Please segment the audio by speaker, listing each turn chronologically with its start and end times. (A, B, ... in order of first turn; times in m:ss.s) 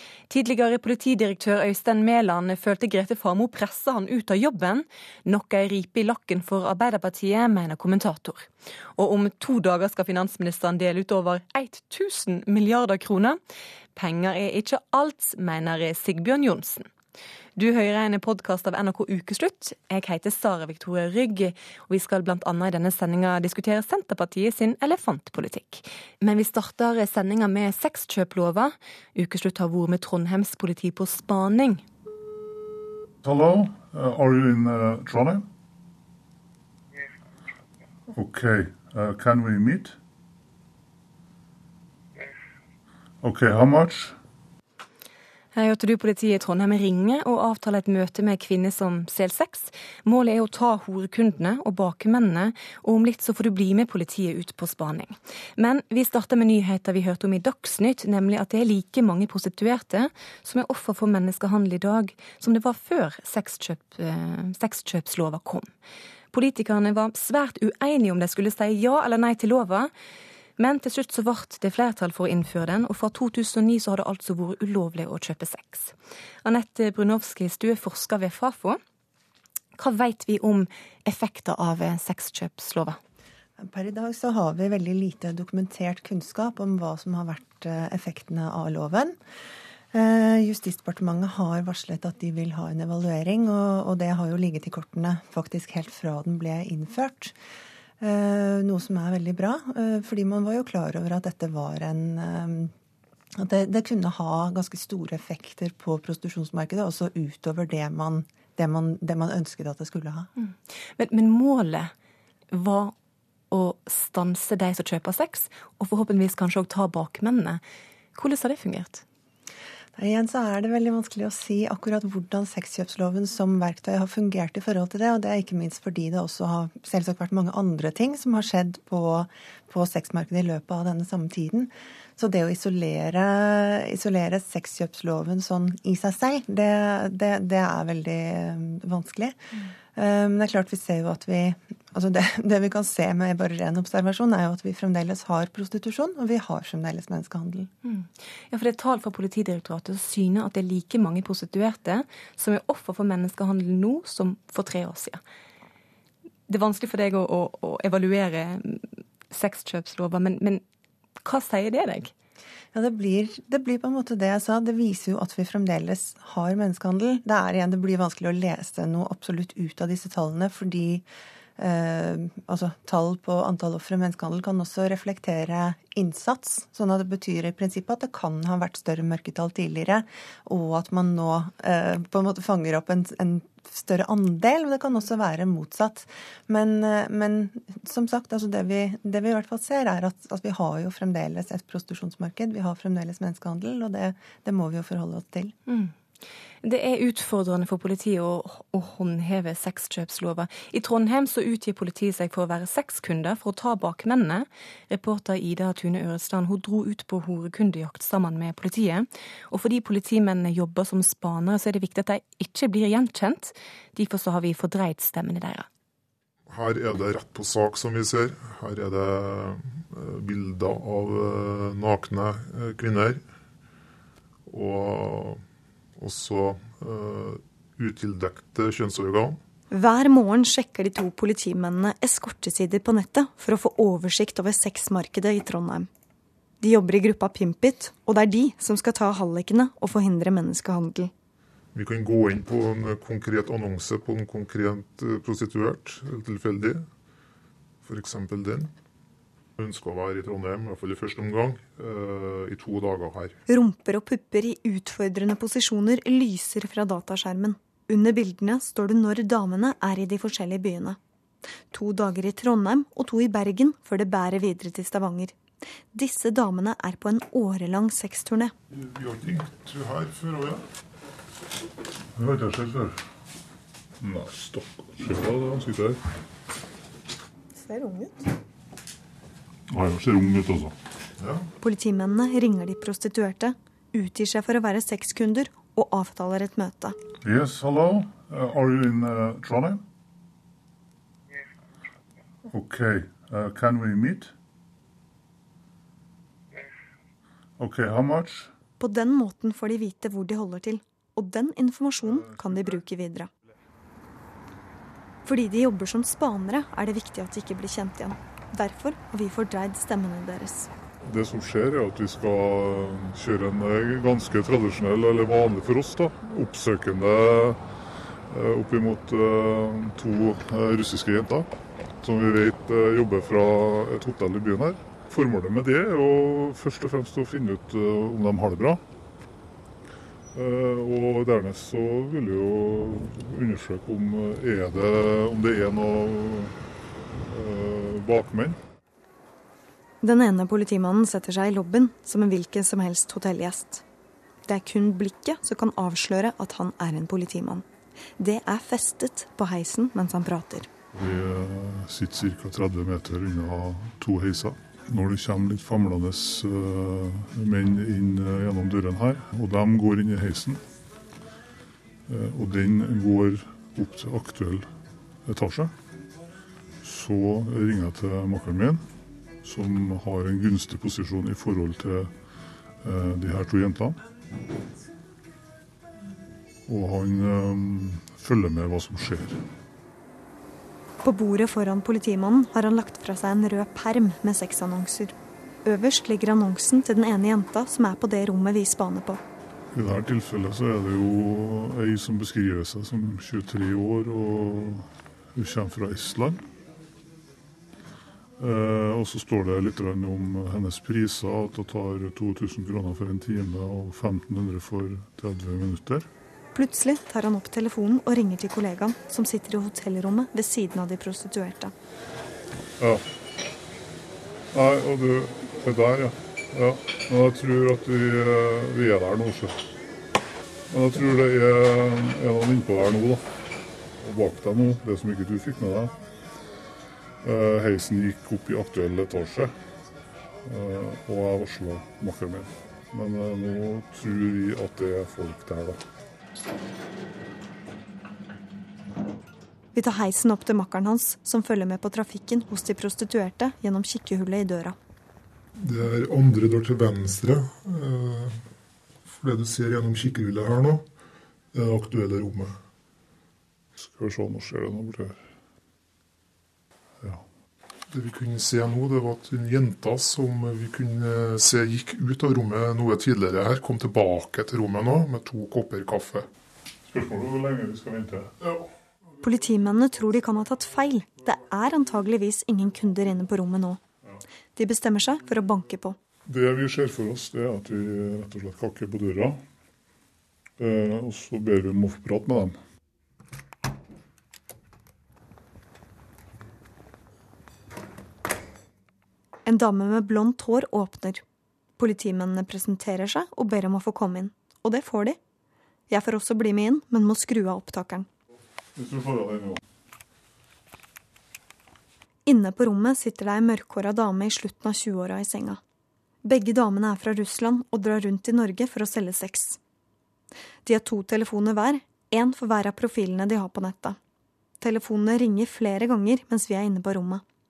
0:00.3-0:13.4 A
0:13.9-0:16.9 A
0:17.6-0:31.8 A
0:33.2-0:35.4 B
0:38.1-0:40.0 B
0:43.2-0:44.2 B
0:45.5-1:05.7 A
1:06.3-1:09.9 A
1:10.6-1:18.8 A
1:19.8-1:23.0 A
1:23.6-1:29.2 C
1:29.9-1:37.3 C
1:38.0-1:42.7 C
1:43.3-1:50.3 C
1:50.4-1:51.9 A
1:52.5-1:52.9 A
1:53.5-1:57.6 A
1:58.1-1:59.0 A
2:00.0-2:19.4 C
2:19.9-2:27.7 C
2:27.8-2:35.2 A
2:36.5-2:40.6 A
2:41.2-2:42.1 A
2:42.7-2:51.0 C
2:51.6-3:15.5 C
3:15.7-3:15.9 A
3:16.6-3:35.7 A
3:36.5-3:43.2 D
3:44.5-3:45.4 D
3:46.0-3:49.4 D
3:49.7-3:55.9 E
3:56.6-4:01.1 E
4:01.7-4:06.9 D
4:07.8-4:08.7 D
4:09.6-4:13.4 D
4:13.5-4:21.0 E
4:21.7-4:25.4 E
4:25.9-4:28.5 E
4:28.7-4:30.6 D
4:32.2-4:33.0 B
4:34.0-4:36.0 B
4:37.6-4:38.3 E
4:39.7-4:40.7 B
4:41.6-4:47.0 E
4:47.2-4:49.8 B
4:52.4-4:54.3 B
4:57.6-4:58.5 B
4:58.8-5:03.3 E
5:05.2-5:10.7 E
5:11.0-5:17.6 B
5:18.3-5:21.5 B
5:22.0-5:28.8 B
5:30.3-5:36.5 B
5:37.2-5:38.6 B
5:40.0-5:43.8 E
5:44.5-5:47.6 E
5:48.2-5:50.7 E
5:50.9-6:00.6 B
6:02.1-6:04.7 B
6:05.2-6:05.7 B
6:06.8-6:08.8 B
6:09.4-6:12.1 B
6:12.8-6:14.0 B
6:16.7-6:19.4 B
6:21.0-6:29.2 E
6:29.7-6:36.4 B
6:38.4-6:46.1 B
6:46.5-6:51.7 E
6:54.5-6:59.7 B
7:00.7-7:03.2 B
7:04.0-7:05.9 B
7:07.2-7:09.5 B
7:10.4-7:15.8 B
7:19.7-7:24.8 E
7:25.6-7:28.4 D
7:29.1-7:30.8 D
7:31.5-7:32.6 D
7:33.8-7:35.2 B
7:37.9-7:46.2 D
7:46.9-7:48.7 B
7:49.2-7:53.8 E
7:54.6-7:56.0 E
7:56.2-7:59.4 B
8:00.6-8:02.6 B
8:09.4-8:11.2 E
8:11.8-8:15.2 E
8:15.9-8:18.1 E
8:18.8-8:19.6 B
8:22.2-8:25.6 E
8:26.2-8:29.6 E
8:30.6-8:34.0 E
8:34.6-8:37.2 E